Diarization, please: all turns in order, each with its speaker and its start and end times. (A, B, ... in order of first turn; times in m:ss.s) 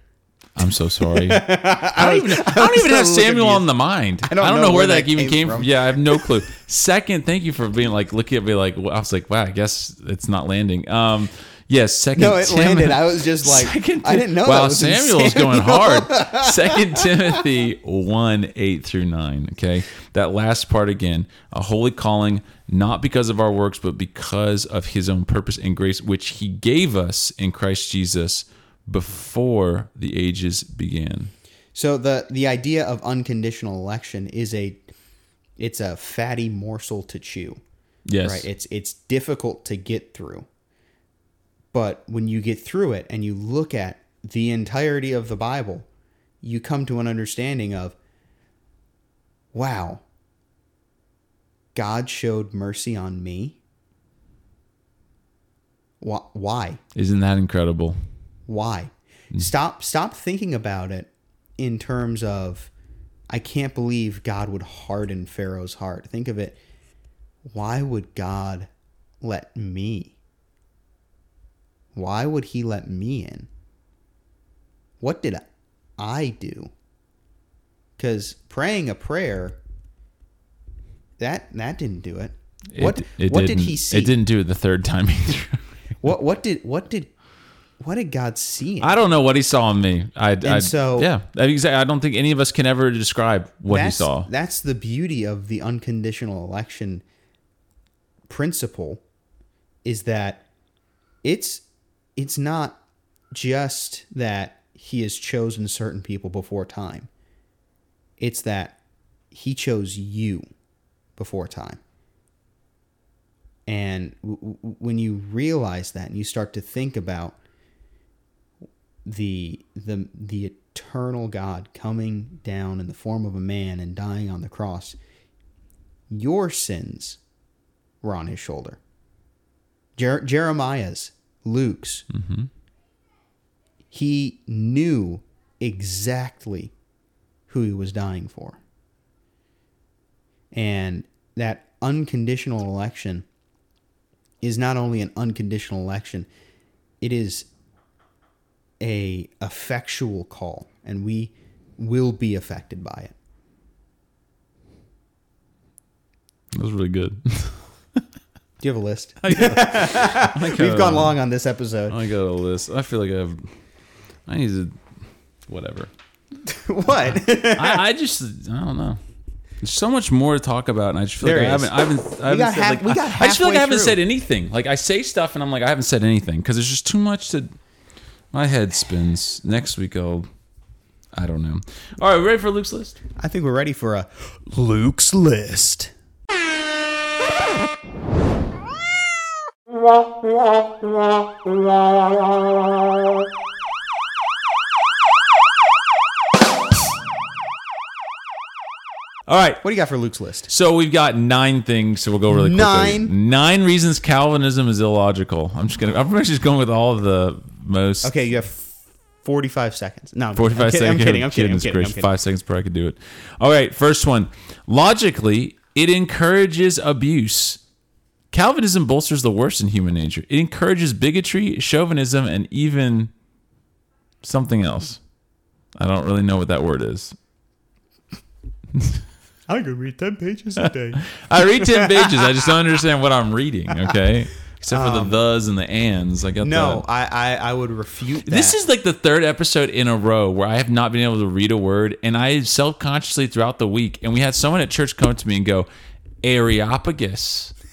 0:00.6-0:31.3 A
0:01.0-0:03.7 B
0:04.2-0:06.3 B
0:12.1-0:17.4 B
0:31.7-0:34.9 B
0:35.6-0:37.6 B
0:38.1-0:38.5 A
0:38.2-0:40.4 B
0:41.7-0:45.9 B
0:46.4-0:48.0 B
0:49.5-0:50.0 B
0:51.7-0:53.6 B
0:56.0-0:56.8 B
0:56.9-0:58.0 A
0:58.5-1:02.7 B
1:03.3-1:06.6 B
1:07.5-1:08.7 B
1:09.2-1:10.2 B
1:11.9-1:13.5 B
1:15.0-1:15.5 B
1:16.0-1:16.7 B
1:18.0-1:19.6 B
1:21.2-1:24.1 B
1:22.7-1:25.6 A
1:26.0-1:27.1 B
1:27.8-1:29.0 B
1:28.8-1:34.3 A
1:30.4-1:31.1 B
1:33.7-1:37.0 B
1:38.3-1:39.0 B
1:39.8-1:40.4 B
1:41.2-1:41.6 B
1:42.2-1:42.8 B
1:43.3-1:47.1 B
1:48.2-1:48.8 B
1:49.3-1:50.4 B
1:51.2-1:51.8 B
1:53.7-1:57.4 B
1:59.0-2:05.0 B
2:06.1-2:07.2 B
2:08.0-2:08.8 B
2:10.0-2:12.1 B
2:12.1-2:12.5 A
2:13.9-2:16.7 B
2:17.5-2:18.6 B
2:20.5-2:23.2 B
2:24.4-2:26.3 B
2:27.0-2:27.5 B
2:28.8-2:33.1 B
2:36.5-2:38.0 A
2:38.6-2:42.0 B
2:39.2-2:41.2 A
2:41.9-2:43.5 A
2:44.3-2:44.8 A
2:45.4-2:45.9 A
2:46.4-2:47.8 B
2:47.0-2:49.0 A
2:49.6-2:57.5 A
2:51.2-2:54.0 B
2:58.3-3:00.3 A
3:01.1-3:03.0 A
3:03.2-3:05.9 B
3:19.3-3:19.6 A
3:19.6-3:20.5 B
3:20.5-3:28.1 A
3:22.3-3:23.1 B
3:28.0-3:32.1 B
3:30.3-3:37.6 A
3:38.3-3:43.1 A
3:44.2-3:45.0 A
3:45.8-3:47.1 A
3:48.7-3:49.0 A
3:49.5-3:52.4 B
3:50.6-3:56.8 A
3:54.7-3:55.2 B
3:56.4-3:58.6 B
3:58.2-4:05.7 A
4:06.2-4:07.5 A